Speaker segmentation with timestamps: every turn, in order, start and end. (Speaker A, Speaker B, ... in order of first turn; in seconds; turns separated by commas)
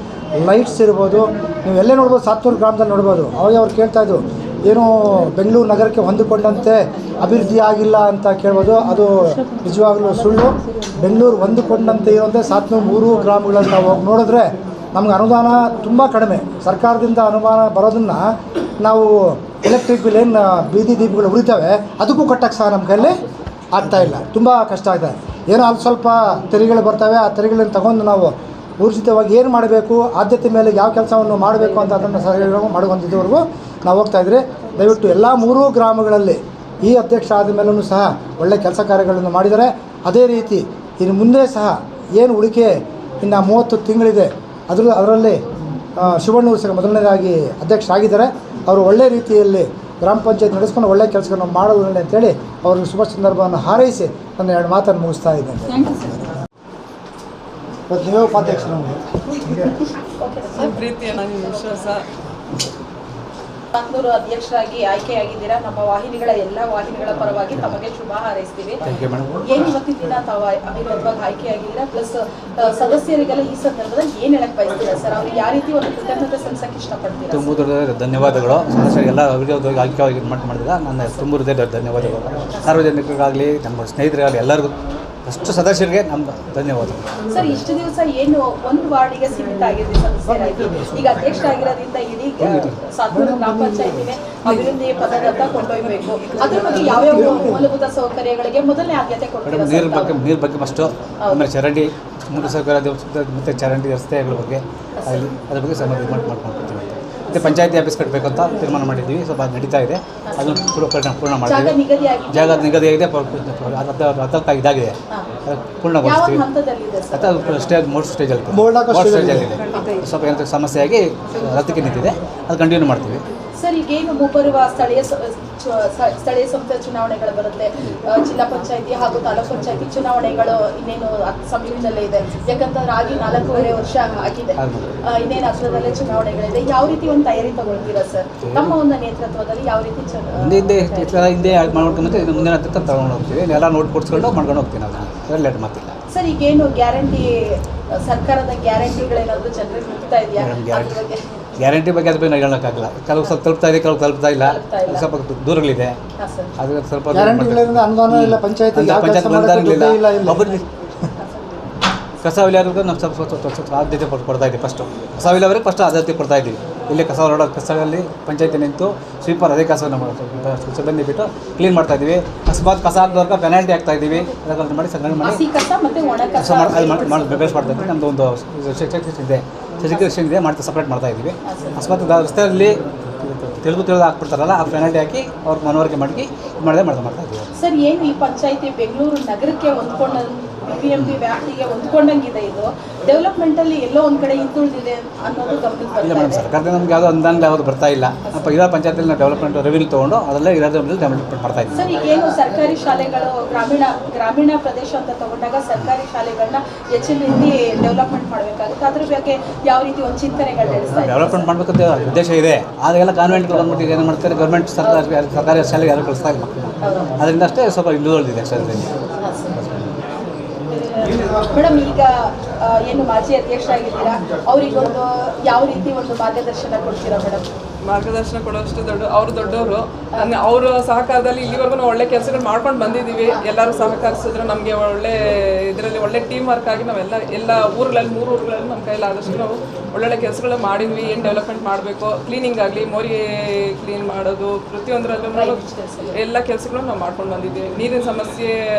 Speaker A: 0.4-18.2, Speaker A: 18.8-23.2, Speaker A: 23.7-45.4, Speaker A: 46.0-56.3, Speaker A: 57.9-59.7, Speaker B: 60.2-60.8, Speaker C: 60.6-62.0, Speaker B: 63.7-68.8, Speaker D: 68.8-69.7, Speaker B: 69.4-77.5, Speaker D: 77.3-87.6, Speaker B: 82.5-82.8, Speaker B: 87.3-100.2, Speaker A: 90.2-91.4, Speaker D: 92.4-92.8, Speaker A: 93.1-94.0, Speaker A: 96.4-97.6, Speaker D: 99.5-111.8, Speaker B: 101.2-101.5, Speaker B: 105.0-105.3, Speaker B: 107.3-107.6, Speaker B: 110.3-110.6, Speaker B: 111.4-112.8, Speaker D: 112.3-116.4, Speaker B: 116.0-117.7, Speaker D: 117.1-123.2, Speaker A: 118.5-119.5, Speaker B: 123.6-141.4, Speaker D: 134.6-134.9, Speaker D: 138.4-138.7, Speaker D: 140.4-145.9, Speaker B: 146.1-151.2, Speaker D: 150.4-151.0, Speaker D: 151.6-156.0, Speaker B: 154.4-155.1, Speaker B: 156.2-156.5, Speaker D: 156.6-160.6, Speaker A: 157.1-160.4, Speaker D: 162.2-175.4, Speaker B: 175.2-177.4, Speaker D: 176.3-187.5, Speaker B: 181.4-181.9, Speaker B: 187.6-196.5, Speaker D: 196.0-201.9, Speaker B: 198.2-198.6, Speaker B: 201.7-211.5, Speaker D: 210.9-218.9, Speaker B: 214.8-215.1, Speaker B: 216.8-217.1, Speaker B: 219.2-219.6, Speaker D: 219.5-219.9, Speaker B: 220.7-227.4, Speaker C: 227.8-235.2, Speaker C: 235.7-243.2, Speaker C: 243.8-245.6, Speaker B: 245.3-246.2, Speaker C: 246.1-248.5